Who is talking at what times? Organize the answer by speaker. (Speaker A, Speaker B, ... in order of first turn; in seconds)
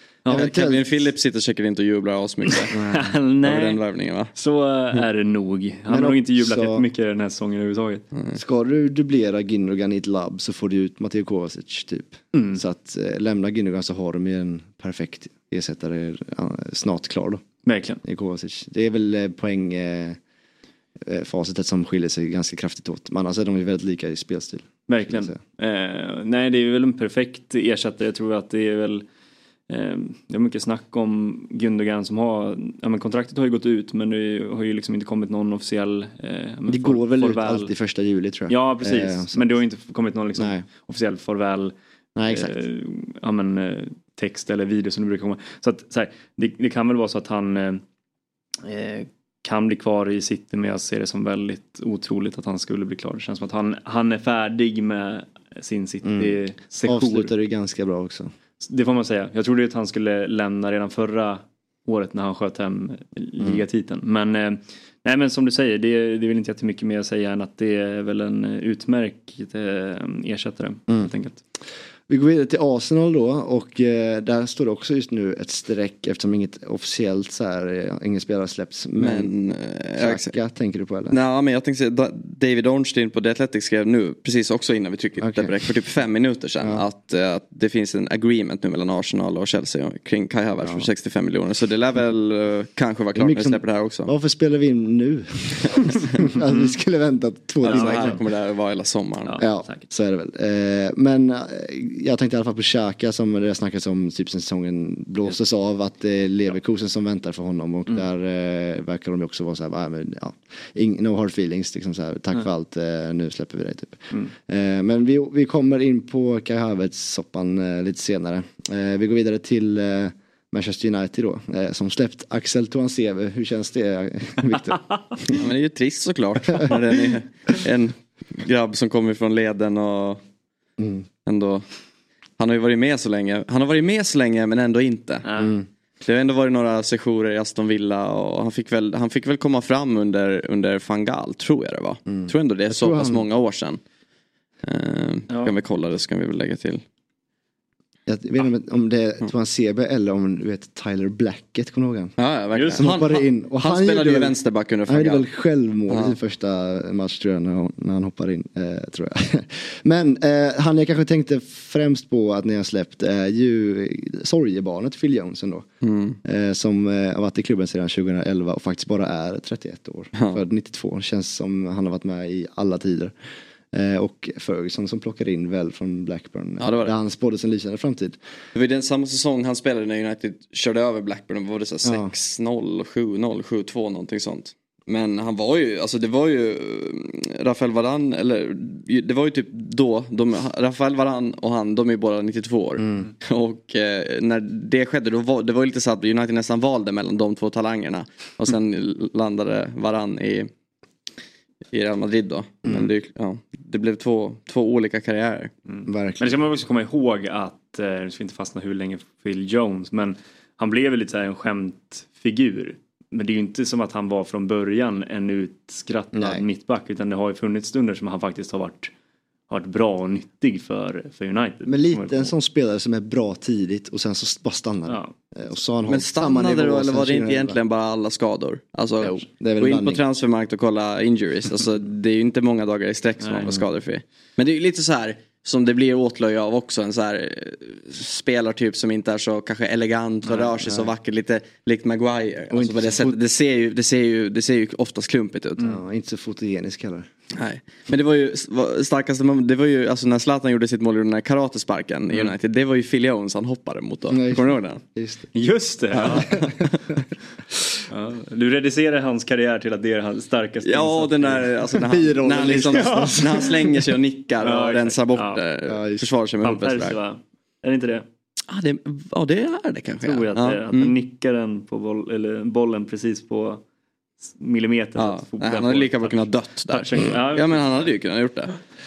Speaker A: 0.2-0.5, 2.9-3.8, 4.3-8.0, 12.3-12.6, 17.6-18.0, 24.9-29.0, 29.7-37.7, 38.5-41.7, 42.3-47.8, 48.6-57.3, 58.6-71.4, 97.7-98.2, 99.2-99.8, 135.2-135.5, 145.3-145.5, 152.6-152.9, 205.7-218.9, 219.5-222.3, 224.9-225.1, 233.2-233.5, 240.2-240.5, 255.3-256.3, 257.9-261.6, 262.7-263.5, 264.4-265.4, 266.4-268.0, 270.0-273.6, 274.3-277.9
Speaker B: 0.3-0.9, 2.7-3.1, 5.9-6.8, 8.3-17.4, 18.0-20.2, 21.0-25.4, 36.7-39.6, 40.4-40.6, 42.1-42.5, 56.0-58.3, 63.4-63.6, 72.1-79.3, 80.0-81.2, 85.2-85.5, 90.6-90.9, 93.1-98.2, 99.4-125.4, 130.8-131.1, 135.4-135.7, 142.1-143.2, 148.1-152.2, 152.7-154.3, 154.9-165.7, 166.2-173.1, 173.7-178.2, 181.8-182.1, 192.8-193.1, 202.7-202.9, 205.8-206.3, 216.1-216.4, 221.7-227.6, 229.0-230.0, 242.5-243.2, 245.6-247.1, 254.1-255.3, 256.1-256.4, 261.9-263.6, 265.7-266.0
Speaker C: 0.3-2.8, 3.4-4.3, 8.1-8.4, 79.0-80.4, 81.1-94.1, 95.7-96.3, 97.6-99.4, 125.3-130.2, 131.2-131.6, 132.4-135.3, 136.0-143.8, 144.6-146.8, 152.2-155.2, 155.9-156.2, 165.8-166.2, 170.1-170.4, 176.6-176.9, 178.5-200.5, 201.7-205.5, 225.9-245.7, 247.3-254.8, 255.9-257.0, 260.6-267.0, 268.5-270.9, 275.0-278.6